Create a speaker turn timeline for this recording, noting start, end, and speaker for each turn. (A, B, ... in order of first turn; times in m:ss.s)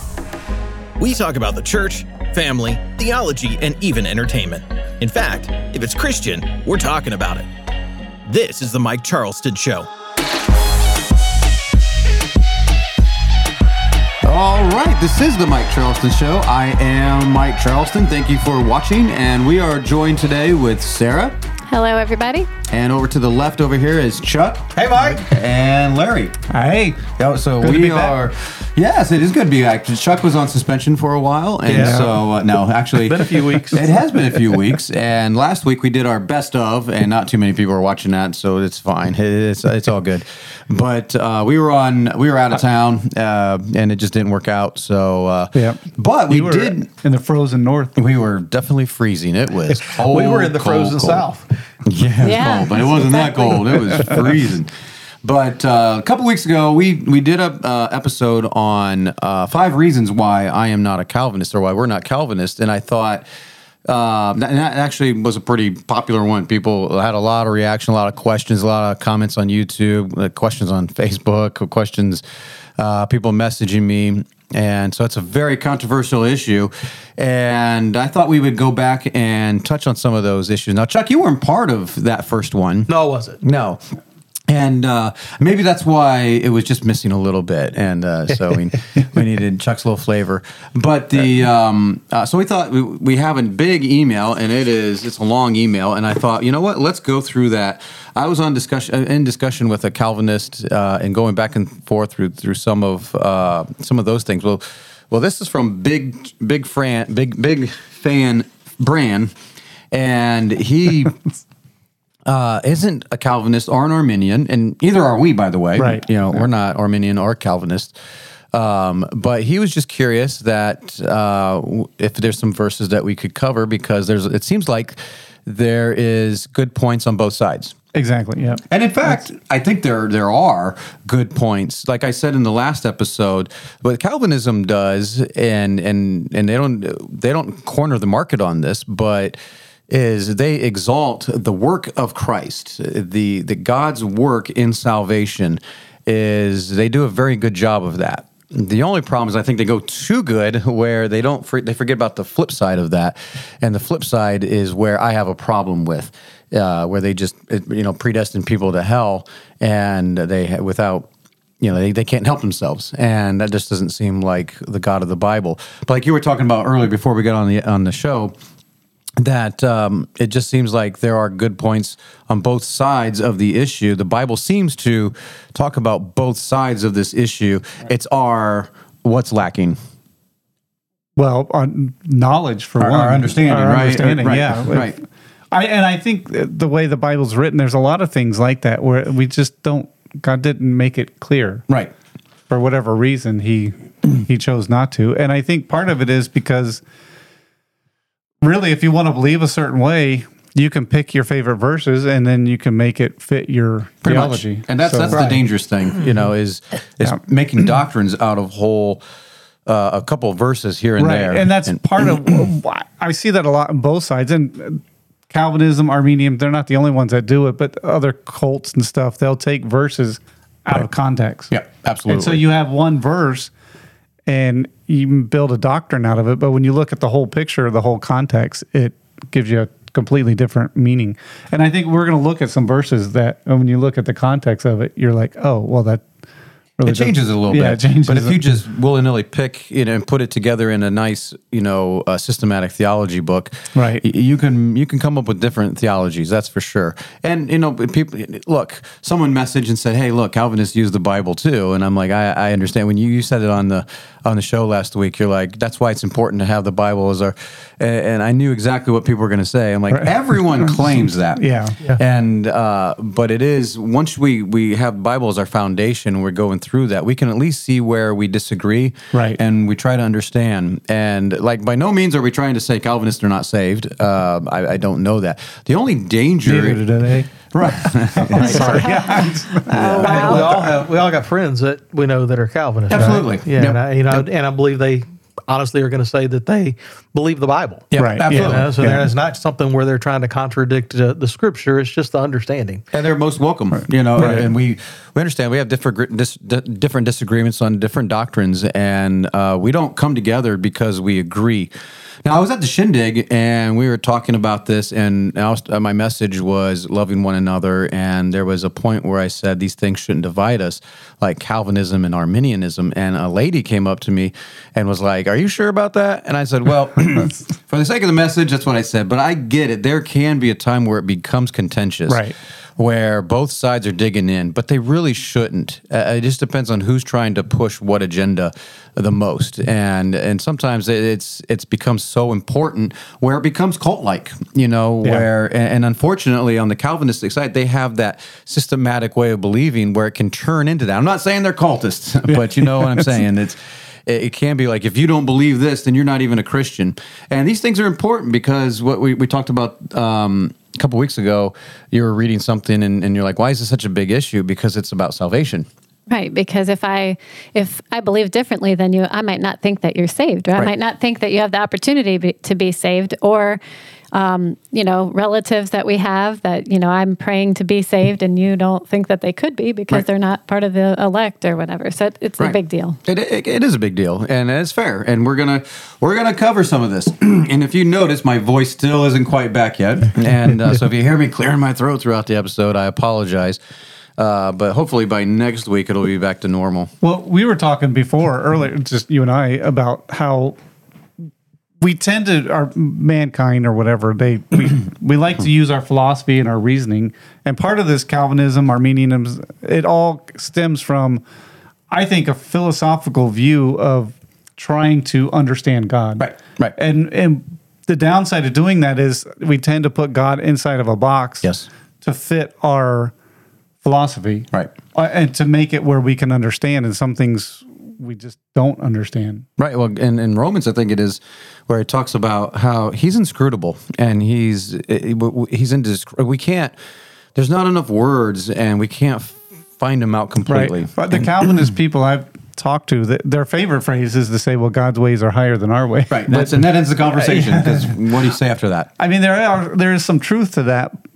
0:01.0-0:07.4 A
0:04.0-0:04.4 B
0:08.3-0:09.9 A
0:09.2-0:09.6 B
0:14.2-0:21.4 B
0:21.7-0:22.5 C
0:22.7-0:26.4 B
0:24.8-0:25.2 D
0:26.5-0:27.1 E
0:27.2-0:46.9 B
0:27.6-0:28.2 E
0:31.6-0:32.2 D
0:31.7-0:32.1 E
0:32.9-0:34.0 D
0:45.5-0:48.0 E
0:48.0-0:51.2 B
0:49.7-0:51.5 D
0:51.9-0:54.7 B
0:52.2-0:53.7 C
0:55.2-1:03.2 B
1:03.9-1:12.2 B
1:12.8-1:22.9 B
1:22.9-1:23.4 D
1:23.4-1:23.8 B
1:24.5-1:49.3 B
1:49.9-1:51.2 B
1:52.3-1:57.9 B
1:55.8-1:56.0 E
1:58.5-2:07.8 B
2:07.9-2:09.3 E
2:08.7-2:19.4 B
2:19.9-2:41.1 B
2:41.6-2:48.4 B
2:49.2-2:59.8 B
3:01.2-3:05.0 E
3:02.8-3:05.0 B
3:05.5-3:11.6 E
3:12.5-3:16.8 E
3:18.4-3:25.4 E
3:24.0-3:29.0 B
3:29.7-3:32.0 B
3:31.0-3:41.5 E
3:41.5-3:42.4 B
3:42.1-3:43.5 E
3:44.3-3:56.0 E
3:56.8-3:58.4 E
3:56.8-4:36.8 B
4:03.7-4:04.0 E
4:19.9-4:21.8 E
4:29.1-4:29.4 E
4:36.4-4:37.3 E
4:37.5-4:38.8 B
4:37.8-4:40.4 E
4:38.5-4:40.5 C
4:39.7-4:40.5 B
4:40.0-4:52.8 D
4:42.9-4:44.3 B
4:42.9-4:43.2 E
4:47.9-4:48.7 B
4:48.0-4:49.1 E
4:52.9-5:01.7 B
4:54.2-4:54.5 E
5:02.2-5:22.2 B
5:22.1-5:22.4 E
5:22.8-5:55.7 B
5:42.6-5:43.0 E
5:56.1-6:03.6 C
6:04.1-6:13.0 C
6:12.4-6:23.6 B
6:24.2-6:26.9 B
6:27.0-6:30.6 E
6:31.8-6:41.2 E
6:41.9-6:51.5 E
6:46.2-6:46.8 B
6:51.4-6:51.7 B
6:52.0-6:53.1 E
6:53.8-6:59.5 E
6:59.6-7:06.8 B
7:07.4-7:11.2 B
7:10.5-7:18.2 E
7:16.1-7:18.9 B
7:19.0-7:21.0 E